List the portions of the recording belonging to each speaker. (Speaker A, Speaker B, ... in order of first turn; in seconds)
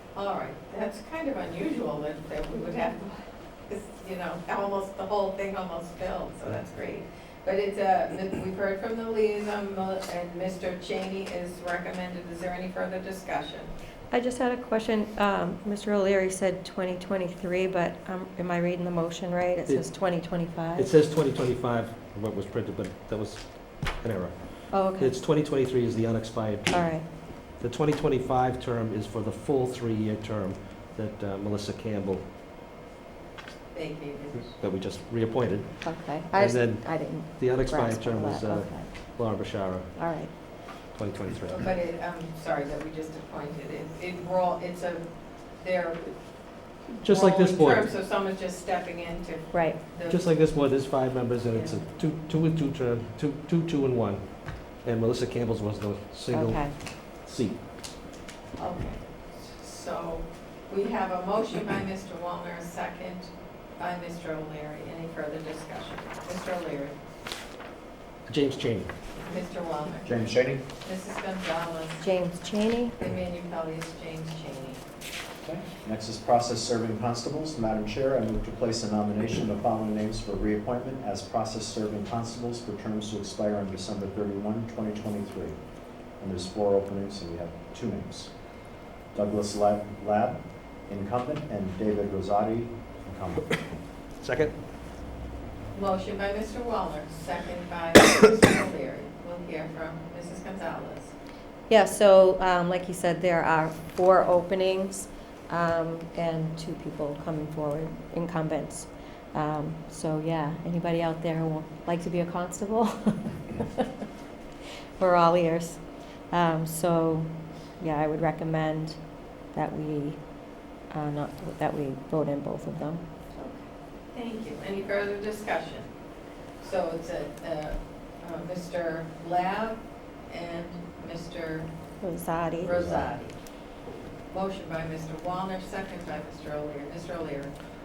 Speaker A: 0.1-13.7, 33.7-34.5, 41.4-50.2, 58.6-66.9, 69.2-70.1, 70.8-72.0, 73.0-74.8, 95.7-101.1, 123.4-125.9, 126.6-131.7, 132.6-133.3, 134.3-137.5
Speaker B: 14.1-20.9, 24.7-25.2, 26.7-27.1, 35.8-38.9, 39.9-40.3, 49.5-49.8, 56.3-56.8, 72.0-73.0, 101.7-113.8, 115.0-123.0, 132.0-132.8
Speaker C: 20.7-32.2, 34.6-41.6, 47.0-47.9, 50.1-57.6, 68.3-68.9, 94.2-94.5
Speaker D: 70.0-70.6, 75.4-85.6, 86.2-88.3, 89.1-93.6, 132.7-133.1